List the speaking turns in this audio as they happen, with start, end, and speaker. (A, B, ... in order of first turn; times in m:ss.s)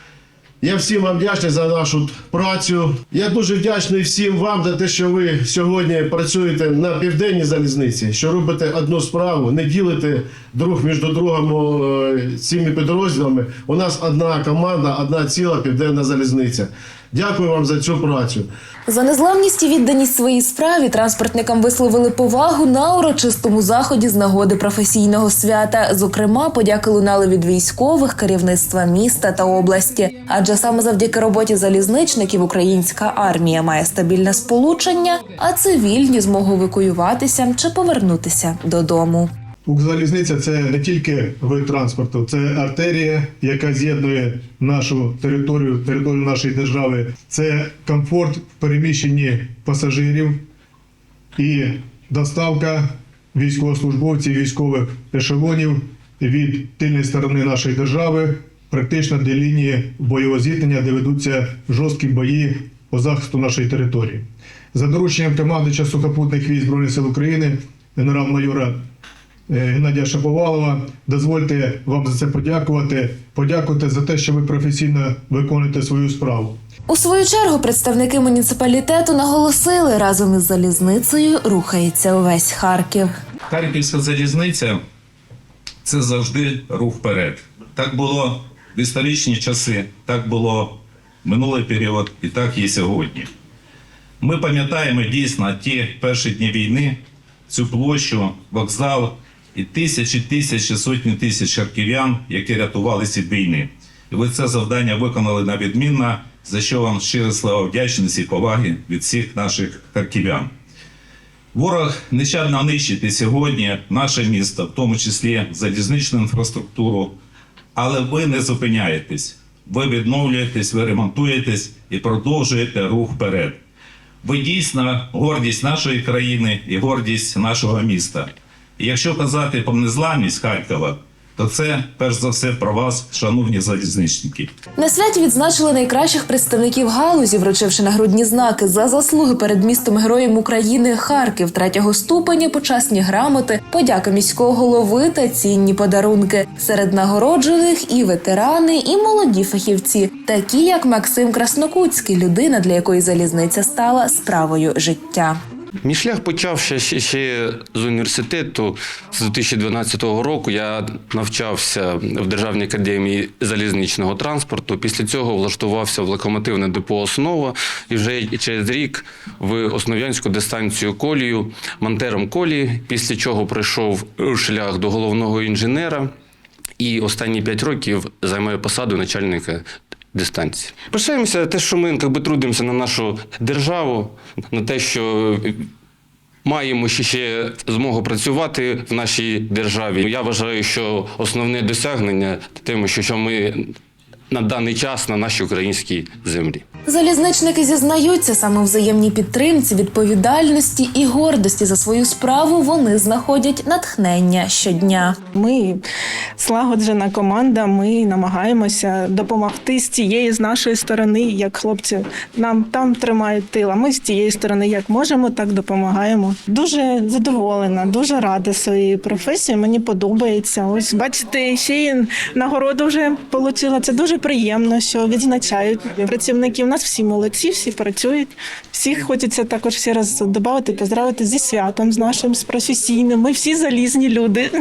0:00.6-0:18.5 A
0:18.9-0:39.3 B
0:39.6-0:50.4 C
0:51.4-1:08.8 C
1:09.5-1:16.6 C
1:16.9-1:23.1 B
1:23.5-1:24.8 D
1:25.8-1:33.3 D
1:34.2-1:50.5 D
1:51.5-1:57.2 D
1:57.8-2:03.6 D
2:04.2-2:14.5 D
2:14.8-2:35.4 B
2:35.8-2:56.1 E
2:56.8-3:05.7 E
3:06.4-3:13.7 E
3:14.3-3:16.6 E
3:16.8-3:25.2 B
3:25.4-3:25.8 F
3:26.4-3:54.5 F